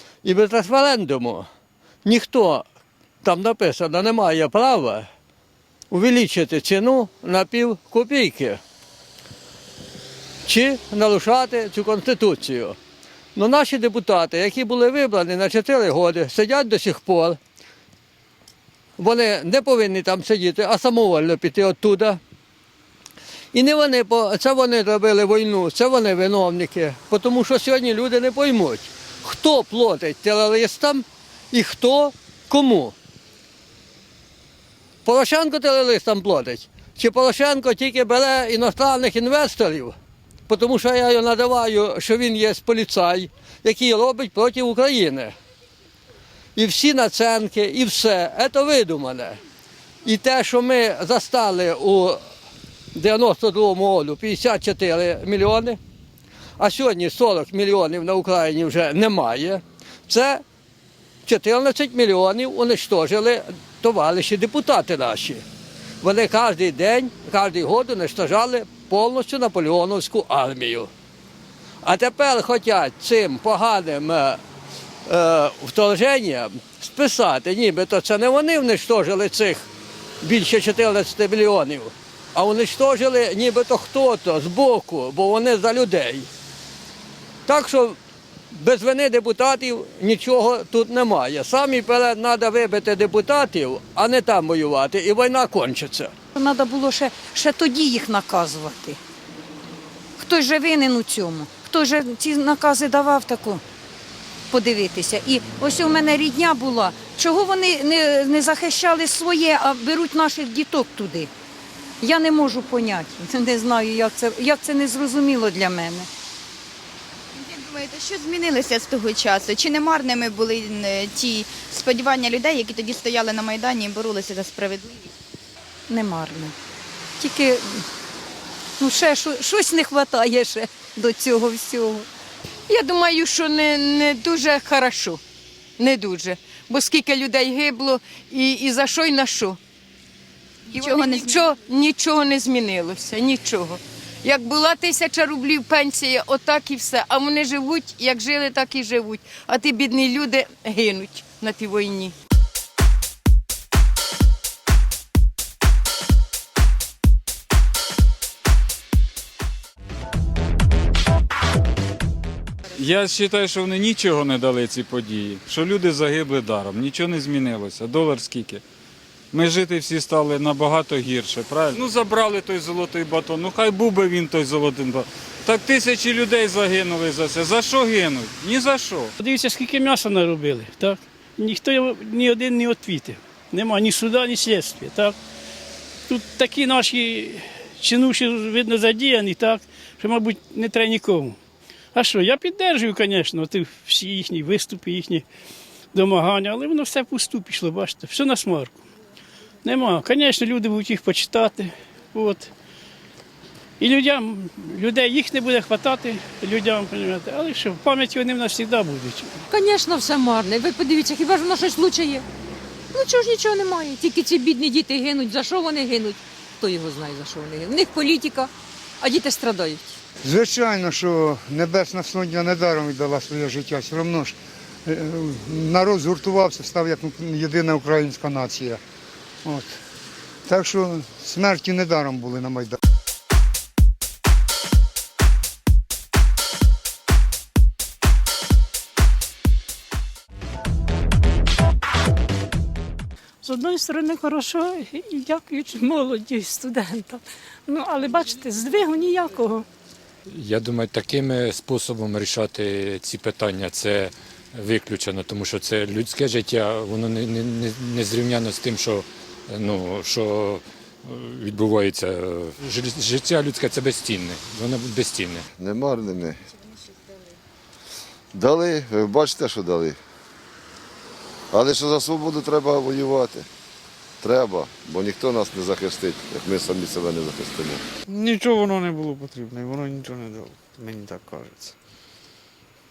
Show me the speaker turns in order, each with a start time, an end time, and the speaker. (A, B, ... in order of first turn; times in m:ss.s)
0:00.2-0:01.5 A
0:02.0-0:02.6 A
0:03.2-0:05.1 A
0:05.9-0:08.6 A
0:10.4-0:12.8 A
0:13.4-0:17.4 A
0:19.0-0:22.2 A
0:23.5-0:33.0 A
0:35.0-0:40.0 A
0:40.5-0:45.3 A
0:46.6-0:49.4 A
0:50.0-0:52.2 A
0:53.0-0:55.8 A
0:56.6-1:00.4 A
1:01.3-1:05.4 A
1:06.0-1:10.9 A
1:11.8-1:14.4 A
1:15.1-1:19.7 A
1:20.2-1:26.3 A
1:27.5-1:28.0 A
1:28.5-1:36.1 A
1:36.3-1:39.0 B
1:40.2-1:43.6 B
1:44.5-1:51.3 B
1:52.0-1:56.1 B
1:57.3-2:05.1 C
2:05.9-2:06.5 B
2:07.2-2:07.6 B
2:08.8-2:12.0 B
2:12.7-2:15.2 D
2:15.8-2:19.6 D
2:20.7-2:21.4 C
2:20.7-2:32.1 D
2:42.8-2:48.6 E
2:49.3-2:59.1 E
2:59.2-3:05.1 F
3:06.1-3:11.4 F
3:11.9-3:15.2 F
3:15.9-3:18.8 F
3:19.6-3:22.5 F
3:23.8-3:29.4 F
3:29.5-3:32.2 G
3:33.0-3:38.4 G
3:39.0-3:39.8 G
3:40.2-3:44.3 H
3:44.8-3:48.8 H
3:49.4-3:49.8 H
3:50.5-3:52.8 H
4:03.4-4:09.6 I
4:10.3-4:25.5 J
4:25.6-4:26.4 K
4:28.3-4:30.0 K
4:31.5-4:33.5 K
4:34.2-4:37.8 K
4:38.1-4:41.7 L